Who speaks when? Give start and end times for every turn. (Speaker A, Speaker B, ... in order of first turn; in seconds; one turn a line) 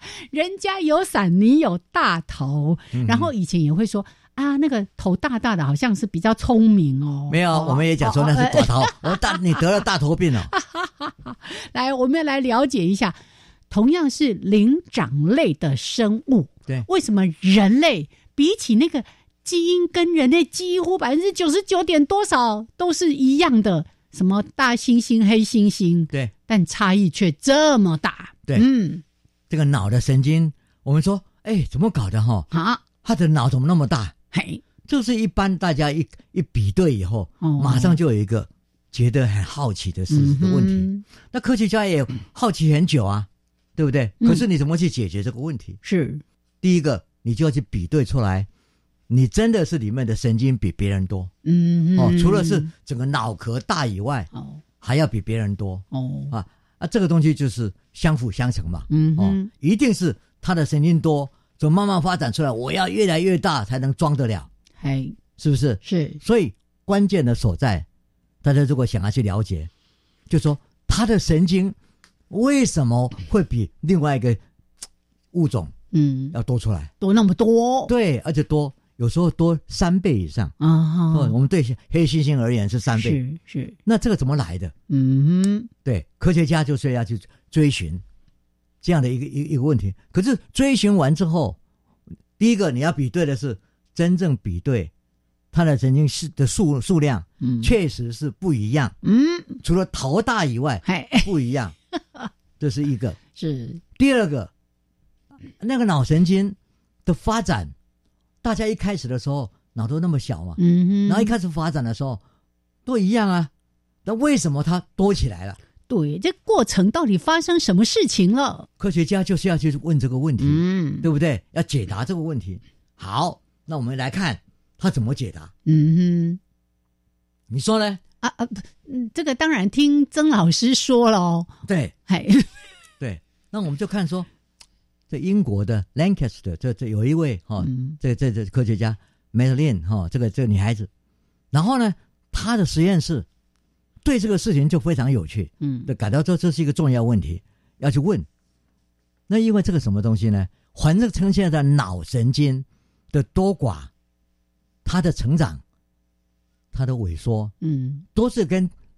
Speaker A: 0.3-9.6
Speaker B: 2.9-3.3
Speaker B: 7.3-10.5
Speaker A: 10.5-13.2
Speaker A: 13.7-29.0
Speaker B: 29.5-32.5
Speaker A: 32.5-32.8
Speaker B: 33.0-34.1
Speaker A: 34.3-34.6
Speaker B: 34.9-45.8
Speaker A: 37.4-38.0
Speaker A: 40.1-41.0
Speaker A: 45.8-46.2
Speaker B: 46.6-48.5
Speaker B: 49.1-51.3
Speaker A: 51.4-52.7
Speaker B: 52.0-54.3
Speaker A: 54.3-54.6
Speaker B: 54.8-64.5
Speaker A: 55.9-56.3
Speaker A: 58.9-59.5
Speaker A: 64.8-65.2
Speaker B: 65.4-67.8
Speaker A: 65.8-66.2
Speaker B: 68.4-69.7
Speaker B: 70.3-71.8
Speaker B: 72.3-74.4
Speaker B: 75.3-75.7
Speaker A: 75.9-76.3
Speaker B: 76.3-76.9
Speaker A: 77.0-77.9
Speaker B: 77.9-80.5
Speaker A: 80.6-81.3
Speaker B: 81.1-83.2
Speaker A: 82.9-83.8
Speaker B: 83.8-84.7
Speaker A: 84.9-85.7
Speaker B: 85.8-88.0
Speaker B: 88.8-91.6
Speaker B: 92.4-94.9
Speaker B: 95.5-98.9
Speaker A: 97.4-97.7
Speaker A: 99.0-99.6
Speaker B: 99.6-101.7
Speaker A: 100.8-101.3
Speaker B: 102.6-103.2
Speaker A: 103.3-103.8
Speaker B: 104.0-104.5
Speaker B: 105.6-107.7
Speaker B: 108.4-112.2
Speaker A: 110.6-111.3
Speaker B: 112.8-113.5
Speaker B: 114.0-115.6
Speaker A: 115.9-118.7
Speaker B: 118.8-125.5
Speaker A: 120.4-121.1
Speaker A: 125.7-126.4
Speaker B: 127.5-128.0
Speaker A: 128.2-131.5
Speaker B: 131.7-131.9
Speaker A: 132.1-132.5
Speaker B: 133.0-134.3
Speaker B: 135.1-140.9
Speaker A: 137.6-138.0
Speaker B: 141.5-143.2
Speaker B: 144.0-148.3
Speaker A: 145.6-145.9
Speaker B: 149.3-153.9
Speaker B: 154.8-155.6
Speaker B: 156.7-157.5
Speaker A: 157.6-158.0
Speaker B: 158.1-158.7